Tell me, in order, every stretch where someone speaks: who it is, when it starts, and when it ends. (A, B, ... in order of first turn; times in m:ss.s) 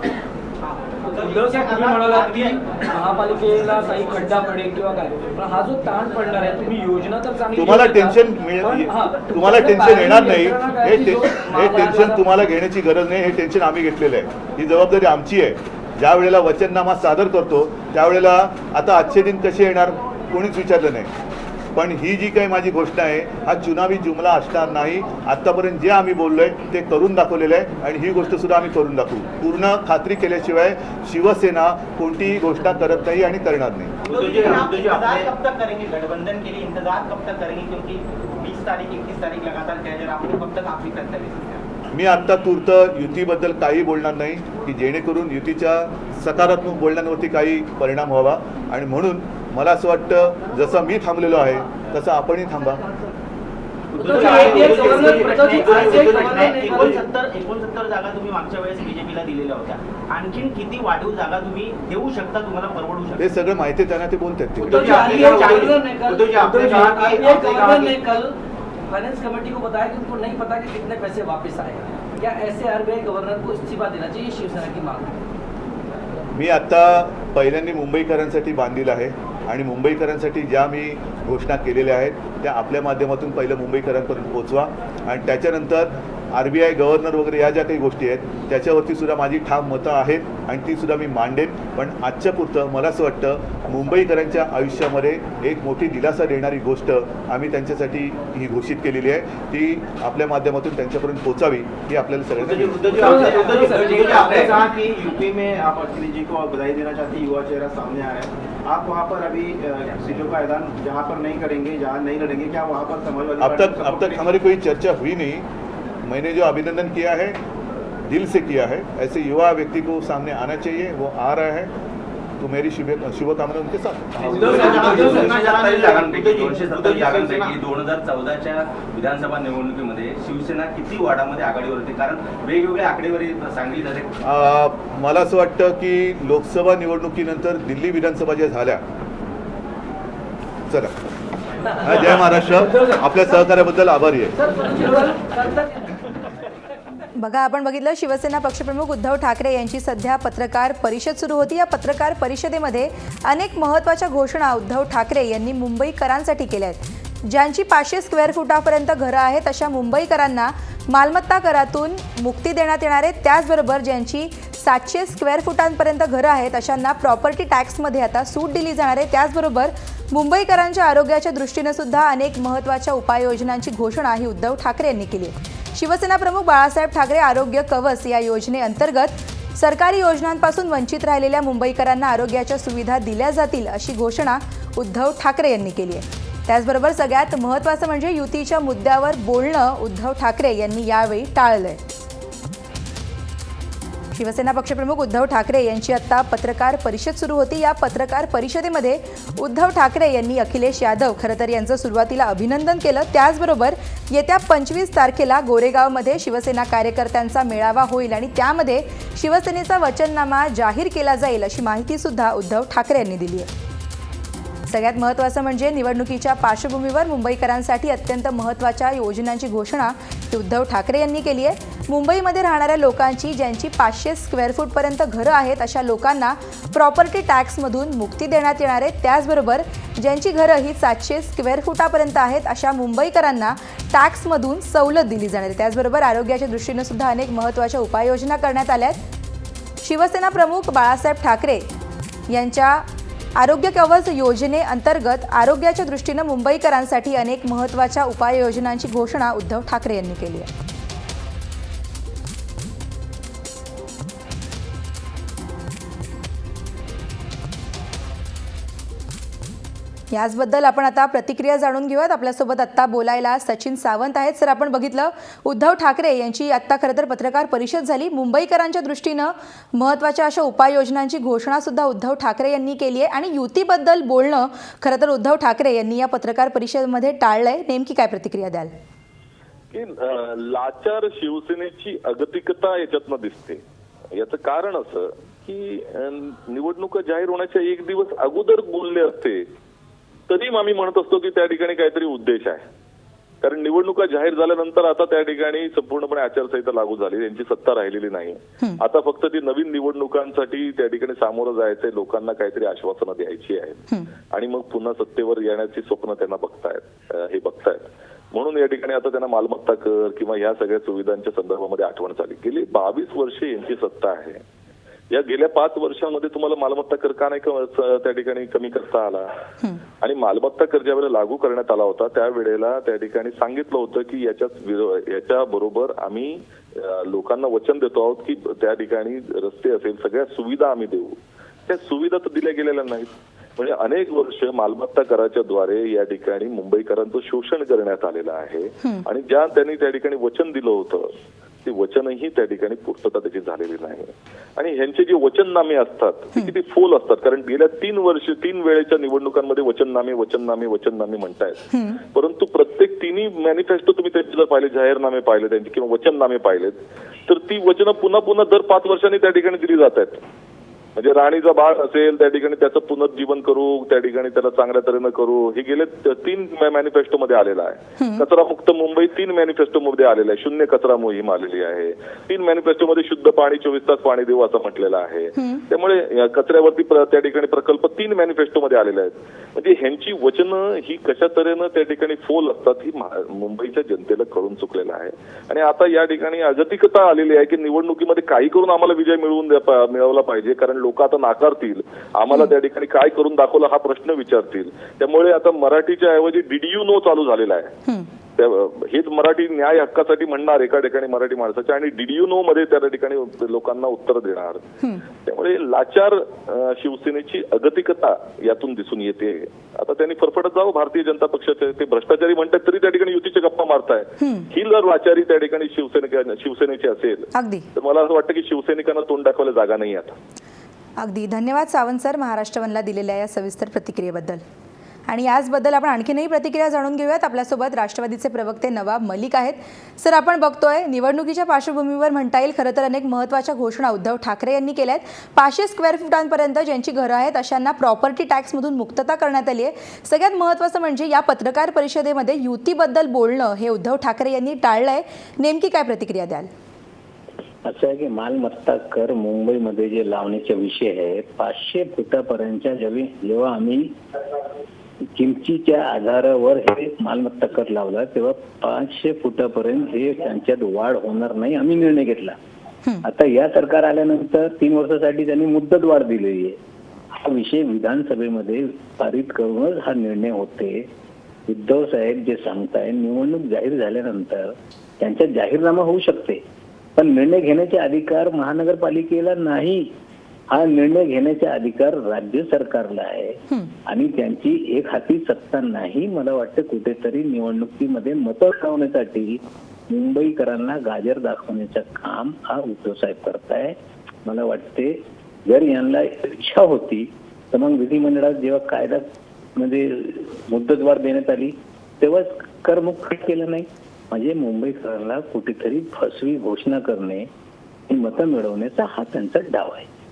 0:00.6-0:02.6 A
0:01.1-0:12.3 B
0:07.5-0:21.1 C
0:21.8-0:34.0 C
0:34.0-0:41.6 A
0:34.1-0:35.2 D
0:41.9-0:52.8 C
0:54.0-1:03.3 A
0:54.0-0:56.4 B
0:55.1-0:55.4 E
0:56.0-0:56.7 E
1:03.2-1:04.8 C
1:04.6-1:08.4 E
1:04.7-1:05.8 D
1:05.1-1:08.0 A
1:06.5-1:06.9 D
1:08.9-1:15.1 E
1:16.3-1:44.1 C
1:42.4-1:54.3 D
1:43.0-1:44.0 B
1:53.4-1:55.4 C
1:56.0-1:57.4 C
1:58.1-2:01.7 C
2:02.4-2:04.6 C
2:04.2-2:14.1 F
2:04.3-2:05.3 B
2:04.3-2:07.6 D
2:04.7-2:06.4 A
2:14.2-2:18.8 C
2:21.8-2:24.4 C
2:24.4-2:25.4 B
2:27.2-3:11.8 G
3:14.2-3:33.5 G
3:34.7-3:59.0 G
3:59.8-4:01.7 G
4:02.3-4:02.8 G
4:03.4-4:10.5 G
4:20.1-4:38.7 G
4:39.7-4:43.6 H
4:44.2-4:49.5 H
4:50.3-4:52.6 H
4:53.4-5:14.4 H
5:15.1-5:19.3 H
5:20.0-5:41.1 H
5:41.6-6:00.2 H
5:51.7-5:52.0 G
6:01.0-6:37.7 H
6:08.0-6:08.2 G
6:38.4-6:44.6 H
6:45.2-7:00.2 H
6:54.2-6:54.5 G
6:57.4-6:57.7 G
7:01.0-7:04.4 G
7:05.1-7:26.5 G
7:27.6-7:33.9 I
7:35.2-7:42.4 I
7:43.0-7:46.6 I
7:47.2-7:50.8 I
7:51.5-7:56.4 I
7:57.0-7:59.9 I
8:00.5-8:13.8 I
8:14.3-8:19.0 I
8:19.6-8:27.3 I
8:27.9-8:29.9 I